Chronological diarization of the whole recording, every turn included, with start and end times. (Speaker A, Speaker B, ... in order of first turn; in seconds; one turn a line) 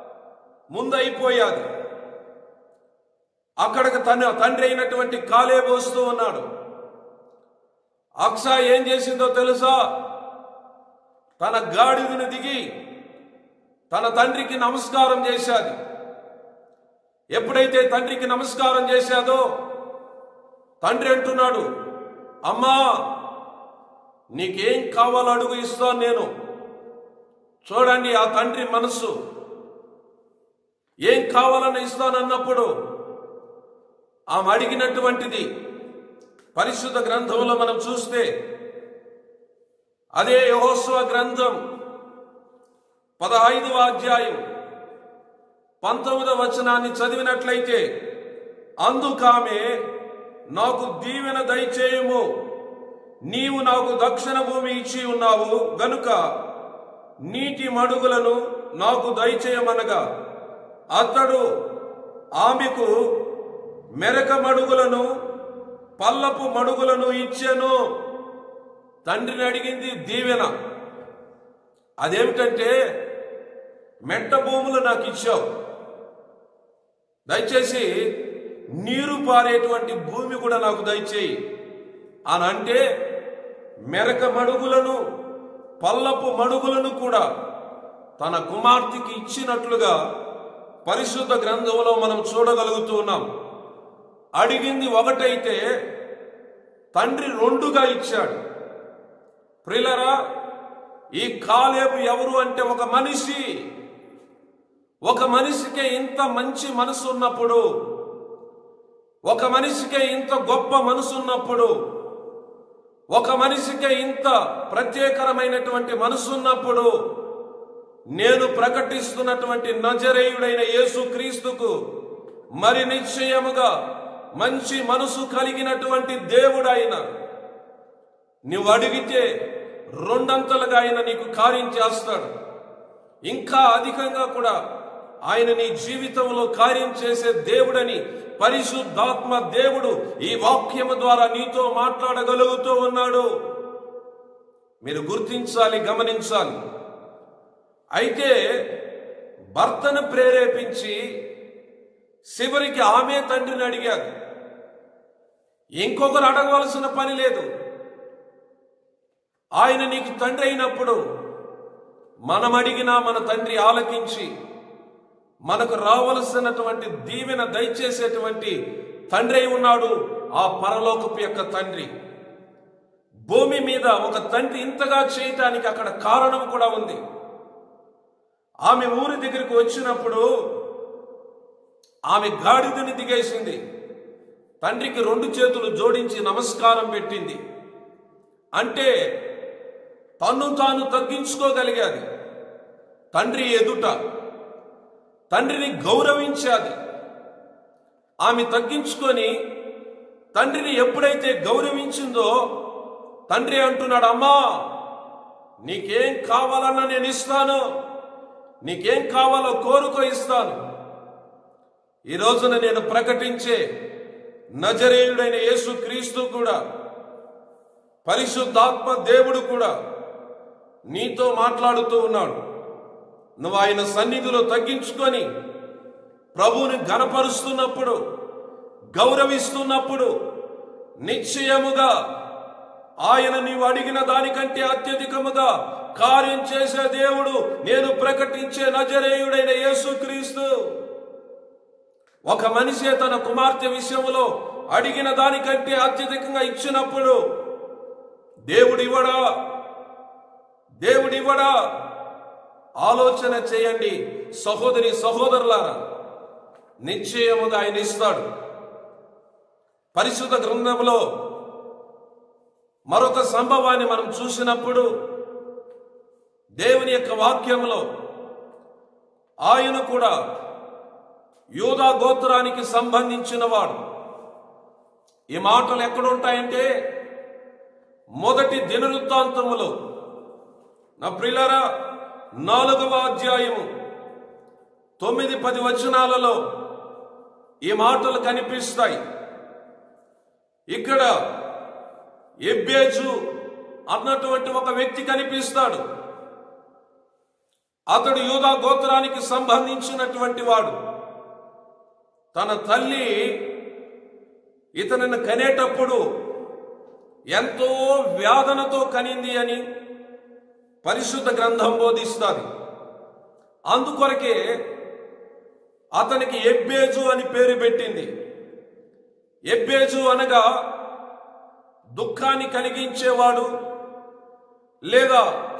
Speaker A: 0.7-1.6
Speaker A: 3.6-6.5
Speaker A: 8.2-9.8
Speaker A: 11.4-12.6
Speaker A: 13.9-15.8
Speaker A: 17.4-19.5
Speaker A: 20.8-21.7
Speaker A: 22.5-22.9
Speaker A: 24.4-26.3
Speaker A: 27.6-29.1
Speaker A: 31.1-32.7
Speaker A: 34.3-35.5
Speaker A: 36.5-38.3
Speaker A: 40.2-41.6
Speaker A: 43.2-44.4
Speaker A: 45.8-47.8
Speaker A: 48.8-49.7
Speaker A: 50.5-52.2
Speaker A: 53.3-56.2
Speaker A: 57.3-60.0
Speaker A: 60.9-61.4
Speaker A: 62.4-62.9
Speaker A: 64.0-65.1
Speaker A: 66.0-67.8
Speaker A: 69.0-70.5
Speaker A: 72.0-72.7
Speaker A: 74.1-75.5
Speaker A: 77.3-77.9
Speaker A: 78.8-81.3
Speaker A: 82.3-82.8
Speaker A: 83.9-85.0
Speaker A: 85.8-87.3
Speaker A: 88.2-90.0
Speaker A: 90.8-93.2
Speaker A: 94.4-95.6
Speaker A: 97.0-98.4
Speaker A: 99.7-100.2
Speaker A: 101.2-103.5
Speaker A: 105.1-107.6
Speaker A: 109.3-111.7
Speaker A: 113.1-116.9
Speaker A: 118.2-121.7
Speaker A: 122.6-123.7
Speaker A: 124.4-127.0
Speaker A: 128.5-129.3
Speaker A: 130.0-132.3
Speaker A: 133.3-134.6
Speaker A: 135.3-143.3
Speaker A: 144.8-146.6
Speaker A: 148.0-148.4
Speaker A: 149.6-151.0
Speaker A: 152.3-154.1
Speaker A: 155.8-157.4
Speaker A: 159.6-161.0
Speaker A: 162.3-164.3
Speaker A: 165.5-168.6
Speaker A: 169.1-171.9
Speaker A: 173.3-177.0
Speaker A: 178.7-180.3
Speaker A: 182.1-183.6
Speaker A: 184.6-187.4
Speaker A: 188.6-188.9
Speaker A: 190.2-192.0
Speaker A: 193.1-193.9
Speaker A: 195.3-196.8
Speaker A: 198.2-199.3
Speaker A: 200.3-202.4
Speaker A: 203.3-204.5
Speaker A: 205.7-207.6
Speaker A: 208.6-210.6
Speaker A: 212.1-213.6
Speaker A: 214.6-216.6
Speaker A: 218.1-219.7
Speaker A: 220.9-222.4
Speaker A: 223.4-225.3
Speaker A: 226.3-228.0
Speaker A: 228.9-230.1
Speaker A: 231.0-231.9
Speaker A: 233.0-240.5
Speaker A: 242.3-247.2
Speaker A: 248.5-249.2
Speaker A: 250.8-251.5
Speaker A: 252.8-255.8
Speaker A: 256.9-258.2
Speaker A: 259.9-261.0
Speaker A: 262.9-264.9
Speaker A: 266.6-267.9
Speaker A: 269.4-270.1
Speaker A: 271.6-273.8
Speaker A: 275.3-276.7
Speaker A: 278.2-279.7
Speaker A: 281.0-281.6
Speaker A: 282.4-283.7
Speaker A: 285.0-286.4
Speaker A: 287.6-289.0
Speaker A: 290.7-291.1
Speaker A: 292.4-293.1
Speaker A: 293.9-295.8
Speaker A: 297.9-300.8
Speaker A: 302.3-303.2
Speaker A: 304.8-306.0
Speaker A: 307.3-309.6
Speaker A: 310.8-312.5
Speaker A: 313.7-314.4
Speaker A: 316.0-318.1
Speaker A: 319.5-320.5
Speaker A: 322.0-323.5
Speaker A: 324.9-325.3